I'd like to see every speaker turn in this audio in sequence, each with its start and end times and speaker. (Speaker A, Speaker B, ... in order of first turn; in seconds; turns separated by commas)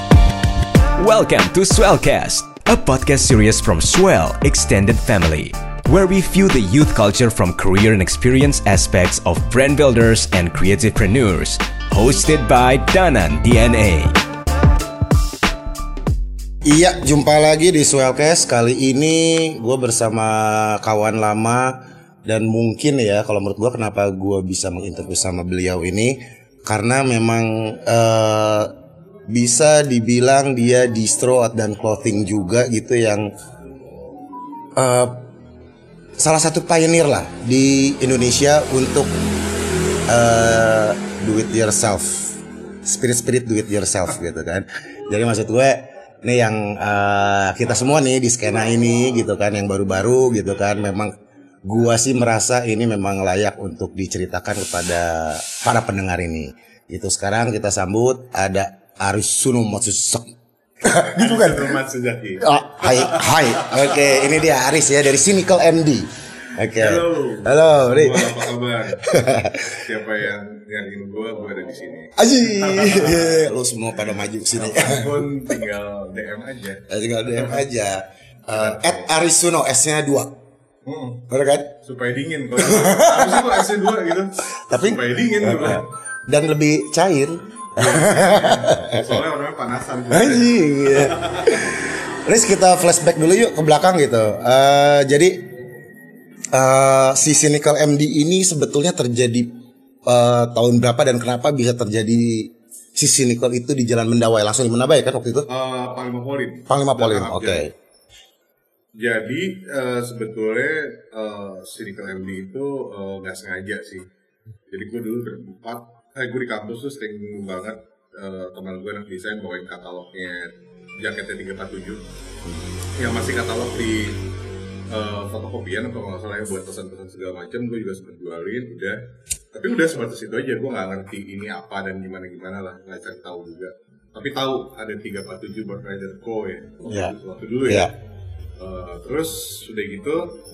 Speaker A: 1.0-14.1, Speaker B: 16.6-28.7, Speaker B: 29.3-33.3, Speaker B: 34.8-35.2, Speaker B: 36.2-39.1, Speaker B: 40.1-51.1, Speaker B: 51.6-61.8, Speaker C: 60.8-64.4, Speaker B: 62.4-69.8, Speaker C: 66.7-69.1, Speaker C: 69.7-73.4, Speaker B: 72.2-75.6, Speaker C: 74.5-77.6, Speaker B: 76.9-80.3, Speaker C: 78.5-79.1, Speaker C: 80.8-81.2, Speaker B: 81.3-81.7, Speaker C: 81.8-85.9, Speaker B: 82.5-89.2, Speaker C: 87.8-91.7, Speaker B: 90.1-95.4, Speaker B: 96.5-99.5, Speaker B: 100.0-105.5, Speaker C: 105.5-107.7, Speaker B: 106.7-107.7, Speaker C: 109.0-114.0, Speaker C: 114.7-122.0, Speaker C: 123.0-124.2, Speaker C: 124.9-129.0, Speaker C: 129.5-137.9, Speaker B: 136.9-137.1, Speaker B: 137.7-137.9, Speaker C: 138.6-140.3